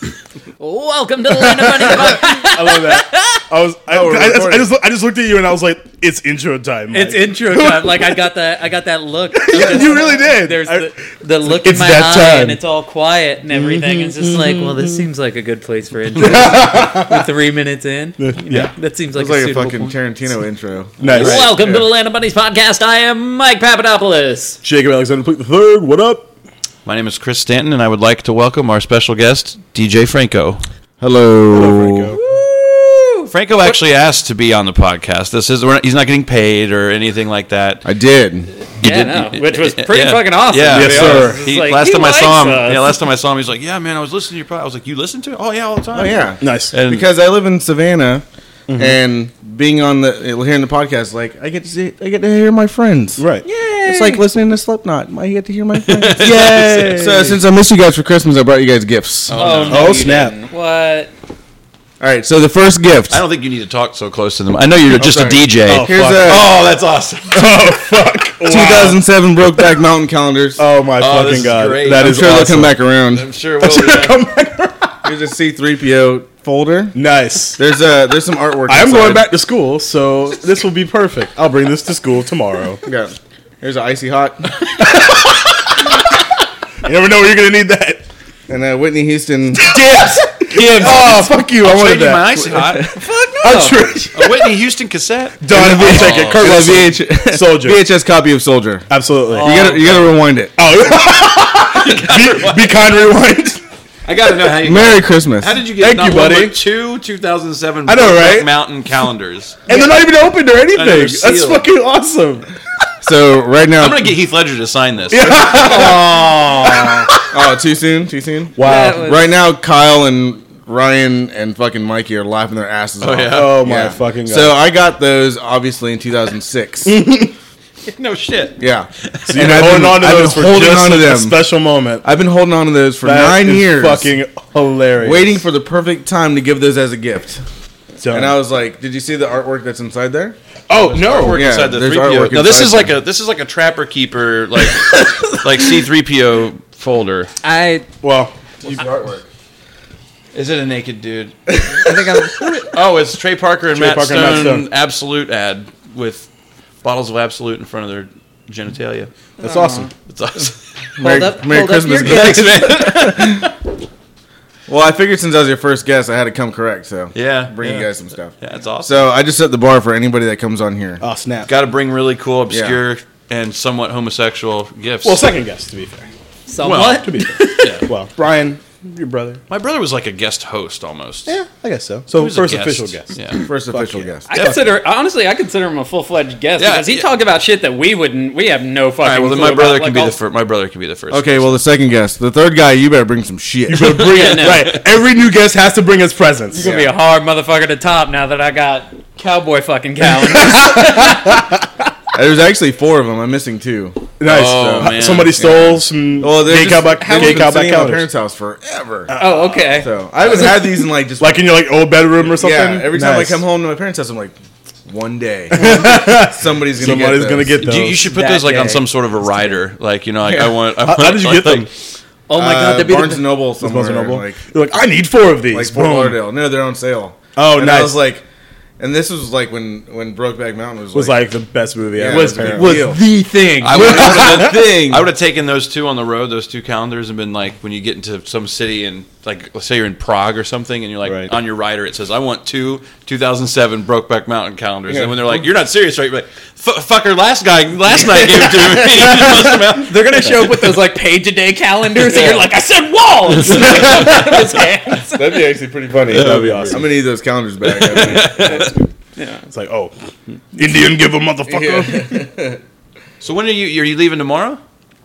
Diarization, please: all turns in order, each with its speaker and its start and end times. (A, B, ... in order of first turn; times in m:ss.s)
0:00.6-0:03.4 A
0:01.3-0:08.2 B
0:03.9-0:04.7 C
0:06.9-0:20.0 A
0:09.3-0:12.6 B
0:13.5-0:15.0 B
0:16.2-0:17.3 B
0:18.2-0:18.7 B
0:19.1-0:21.0 C
0:21.0-0:21.7 B
0:21.0-0:24.6 A
0:21.1-0:21.7 D
0:24.6-0:26.3 B
0:26.8-0:30.6 D
0:31.0-0:32.2 C
0:31.5-0:32.2 B
0:32.1-0:33.8 A
0:33.3-0:37.8 D
0:37.8-0:38.5 C
0:38.7-0:47.1 D
0:38.8-0:43.0 A
0:40.7-0:41.4 B
0:45.9-0:53.3 C
0:46.4-0:46.7 B
0:48.7-0:49.0 B
0:53.2-0:53.4 B
0:53.4-0:54.2 A
0:53.8-0:59.4 C
0:55.8-0:57.0 D
0:56.2-0:57.4 B
0:56.3-0:57.3 A
0:59.3-1:00.0 D
0:59.3-1:01.1 A
0:59.7-1:00.3 B
1:02.0-1:03.2 C
1:03.1-1:07.7 D
1:04.9-1:06.6 C
1:05.6-1:06.5 B
1:07.3-1:09.0 B
1:08.4-1:10.6 C
1:10.6-1:12.7 B
1:11.0-1:14.2 D
1:11.9-1:13.2 C
1:13.6-1:15.0 B
1:15.0-1:17.0 C
1:16.9-1:17.6 B
1:17.6-1:19.3 C
1:18.7-1:22.8 B
1:22.8-1:24.6 C
1:24.6-1:26.2 B
1:26.8-1:28.0 B
1:28.5-1:29.8 C
1:29.7-1:32.4 B
1:30.4-1:33.0 D
1:32.3-1:33.1 C
1:33.0-1:33.9 A
1:33.4-1:34.6 B
1:34.1-1:36.7 D
1:35.4-1:37.8 B
1:35.5-1:40.6 C
1:38.9-1:39.6 B
1:39.3-1:40.2 D
1:40.6-1:43.6 B
1:41.7-1:42.8 D
1:44.0-1:49.7 D
1:44.5-1:45.6 C
1:45.8-1:46.6 B
1:47.8-1:48.5 B
1:49.7-1:52.5 B
1:50.7-1:51.6 D
1:53.0-1:54.1 C
1:53.8-1:55.5 D
1:55.1-1:57.1 B
1:55.1-1:56.0 C
1:57.3-2:07.0 C
1:58.6-1:59.1 B
1:58.6-1:59.3 A
2:03.0-2:03.8 D
2:03.3-2:04.6 B
2:06.8-2:07.3 B
2:07.9-2:09.7 D
2:08.6-2:11.4 C
2:09.3-2:12.0 B
2:12.0-2:14.1 C
2:13.0-2:15.4 B
2:15.0-2:17.4 C
2:18.0-2:18.4 B
2:18.1-2:20.4 C
2:20.7-2:21.4 B
2:20.7-2:27.3 D
2:21.2-2:22.9 C
2:27.4-2:27.9 A
2:28.0-2:28.8 B
2:28.6-2:29.2 C
2:30.3-2:36.3 D
2:31.5-2:32.0 C
2:31.8-2:32.6 A
2:33.7-2:34.7 B
2:36.8-2:39.1 D
2:39.4-2:39.9 A
2:39.4-2:39.9 B
2:40.0-2:40.6 D
2:41.0-2:43.5 C
2:41.0-2:43.0 A
2:42.0-2:43.5 D
2:44.7-2:51.0 C
2:47.1-2:47.9 D
2:48.4-2:49.1 D
2:51.0-2:51.5 B
2:51.4-2:55.2 D
2:52.5-2:52.8 C
2:55.0-2:56.1 B
2:56.5-2:57.8 A
2:56.6-2:57.9 D
2:56.7-2:59.4 B
2:59.5-3:01.4 D
3:01.3-3:04.6 B
3:02.1-3:03.4 D
3:03.4-3:04.3 C
3:04.3-3:10.2 A
3:06.6-3:07.1 D
3:09.0-3:11.5 D
3:11.1-3:14.3 C
3:13.7-3:16.7 B
3:14.0-3:14.8 A
3:14.4-3:14.8 D
3:16.5-3:21.4 A
3:16.6-3:17.0 C
3:20.2-3:21.7 B
3:22.1-3:31.5 C
3:24.2-3:28.1 B
3:24.2-3:25.4 D
3:27.0-3:27.5 A
3:29.1-3:29.7 B
3:29.2-3:29.9 A
3:30.2-3:30.6 B
3:31.2-3:33.4 B
3:32.2-3:37.6 C
3:35.5-3:38.1 B
3:37.6-3:41.7 D
3:38.0-3:38.9 A
3:40.3-3:40.5 C
3:40.8-3:41.7 B
3:42.3-3:43.4 A
3:42.3-3:44.4 C
3:43.6-3:46.2 B
3:45.5-3:48.2 C
3:47.4-3:48.0 B
3:48.8-3:51.2 C
3:50.9-3:53.0 B
3:51.9-3:55.1 C
3:52.1-3:53.8 A
3:53.6-4:10.5 D
3:53.9-3:54.6 B
4:01.0-4:01.3 B
4:04.9-4:05.5 C
4:08.6-4:15.5 A
4:12.0-4:12.4 C
4:15.1-4:18.8 C
4:16.0-4:16.9 B
4:16.0-4:16.9 D
4:17.6-4:18.8 D
4:19.2-4:19.5 A
4:19.5-4:22.2 B
4:21.5-4:22.6 C
4:23.2-4:24.6 D